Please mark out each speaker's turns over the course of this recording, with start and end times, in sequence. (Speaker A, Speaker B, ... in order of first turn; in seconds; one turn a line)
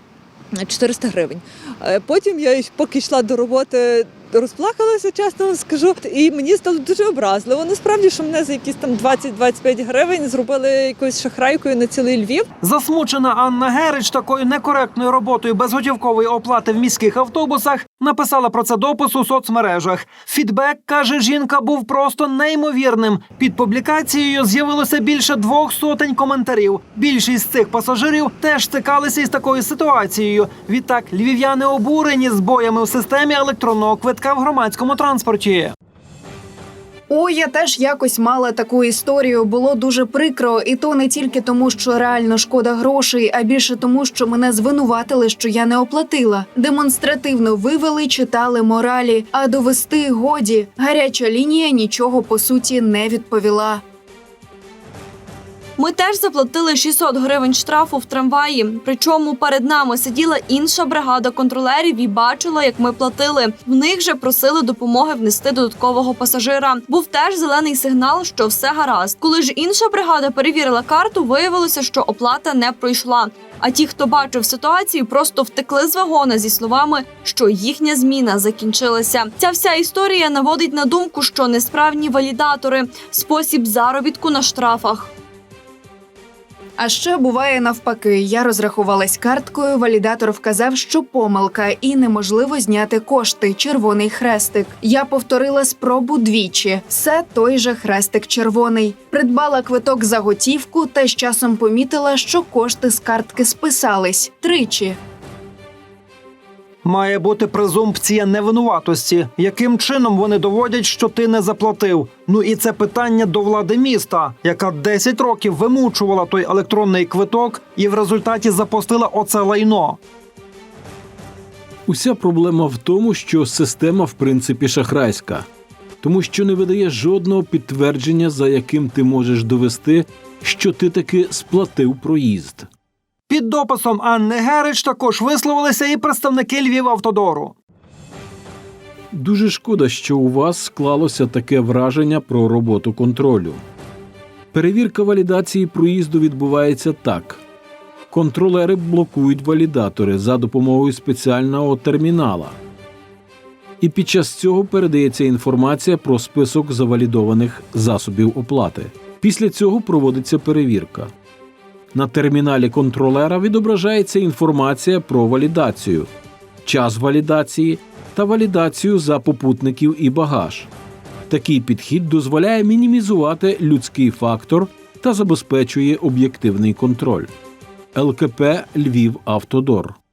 Speaker A: 0.6-12.5
Speaker B: 12.6-35.7
Speaker C: 37.1-53.8
Speaker D: 55.8-85.1
Speaker C: 86.8-105.0
Speaker B: 106.8-120.0
Speaker E: 121.9-125.5
Speaker E: 126.0-132.7
Speaker B: 133.3-137.6
Speaker E: 139.1-143.6
Speaker E: 144.5-147.4
Speaker E: 148.1-152.6
Speaker E: 153.8-161.1
Speaker E: 161.9-166.1
Speaker E: 166.7-170.7
Speaker E: 171.3-177.3
Speaker E: 177.9-180.0